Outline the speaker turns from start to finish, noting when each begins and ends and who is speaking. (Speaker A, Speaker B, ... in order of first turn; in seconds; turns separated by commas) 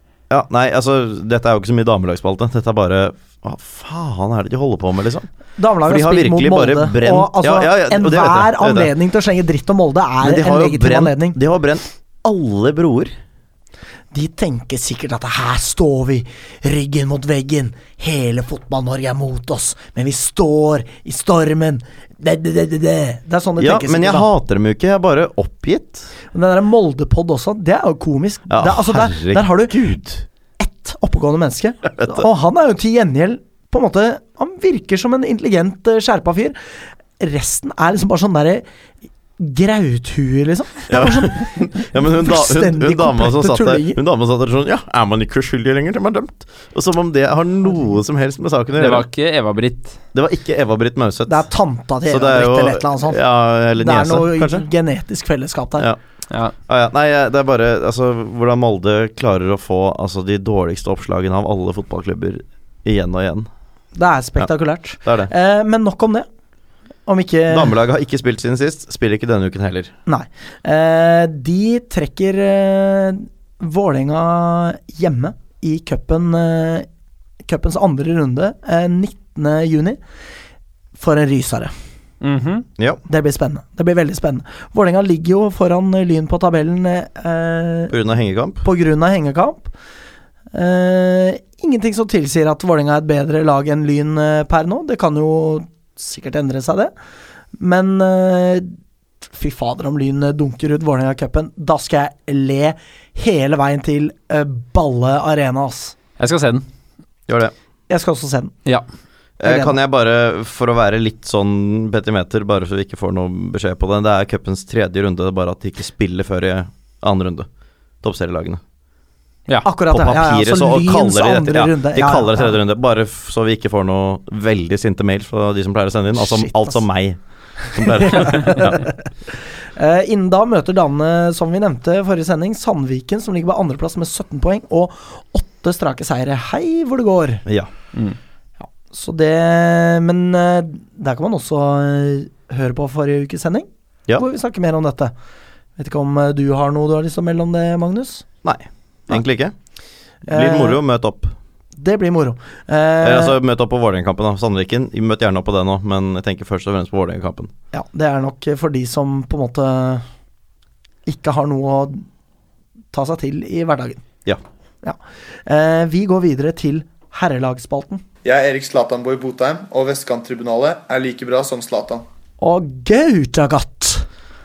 Speaker A: 0.3-5.3, Speaker B: 5.6-11.4, Speaker A: 5.8-8.9, Speaker A: 10.2-13.1, Speaker B: 14.1-24.3, Speaker A: 23.6-26.1, Speaker B: 26.3-29.8, Speaker A: 28.5-30.2, Speaker B: 30.6-36.6, Speaker A: 31.9-32.2, Speaker B: 37.2-38.6, Speaker B: 39.4-44.0, Speaker A: 40.9-49.0, Speaker C: 48.8-50.0, Speaker A: 50.1-51.5, Speaker B: 51.3-53.2, Speaker A: 52.1-54.6, Speaker B: 53.8-55.9, Speaker A: 56.7-63.5, Speaker B: 64.0-66.3, Speaker A: 65.0-65.3, Speaker B: 67.0-67.7, Speaker A: 67.5-69.9, Speaker B: 70.0-76.9, Speaker B: 77.5-80.0, Speaker B: 81.0-81.7, Speaker C: 82.2-82.6, Speaker B: 83.1-87.9, Speaker A: 87.9-88.6, Speaker B: 88.6-89.7, Speaker B: 90.5-96.9, Speaker B: 97.6-98.7, Speaker B: 99.3-106.0, Speaker C: 106.2-106.7, Speaker A: 107.3-107.5, Speaker B: 107.9-108.5, Speaker A: 109.4-117.5, Speaker B: 109.4-109.8, Speaker A: 118.0-118.6, Speaker B: 119.6-122.6, Speaker A: 119.9-127.2, Speaker B: 126.2-126.8, Speaker A: 127.7-128.9, Speaker B: 127.8-137.4, Speaker A: 137.4-137.7, Speaker B: 138.6-145.1, Speaker B: 145.8-148.2, Speaker A: 148.4-149.5, Speaker B: 150.3-150.8, Speaker A: 150.3-151.3, Speaker B: 151.8-153.4, Speaker A: 153.0-157.5, Speaker B: 157.7-160.0, Speaker B: 161.1-162.1, Speaker B: 162.9-164.0, Speaker B: 164.8-168.0, Speaker D: 168.2-172.0, Speaker B: 172.4-174.1